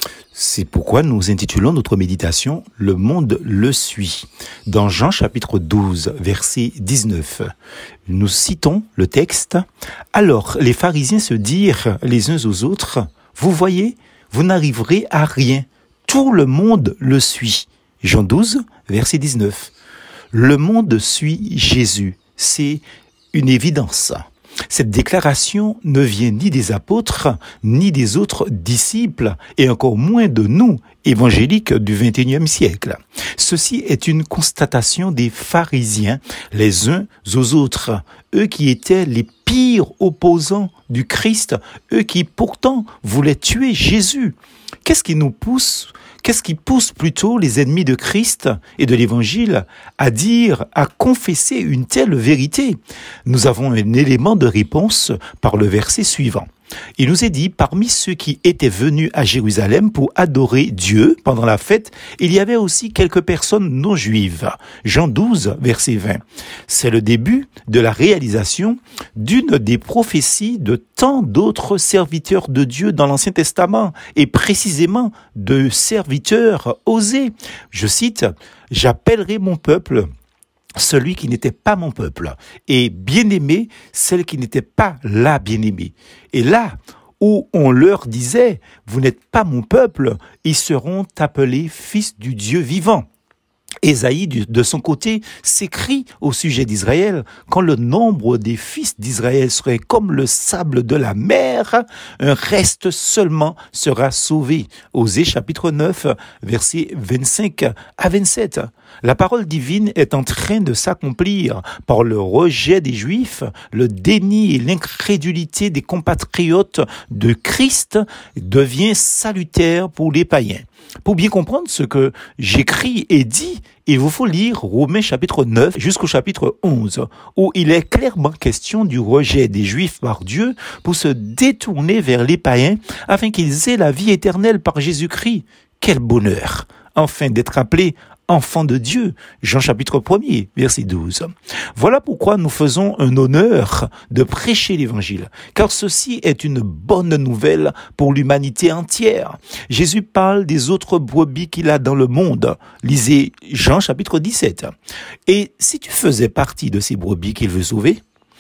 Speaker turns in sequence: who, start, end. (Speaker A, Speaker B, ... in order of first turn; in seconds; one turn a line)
Speaker A: 0.3-7.5
Speaker A: 8.1-19.7
Speaker A: 20.3-80.1
Speaker A: 80.8-93.1
Speaker A: 93.8-154.7
Speaker A: 155.3-158.0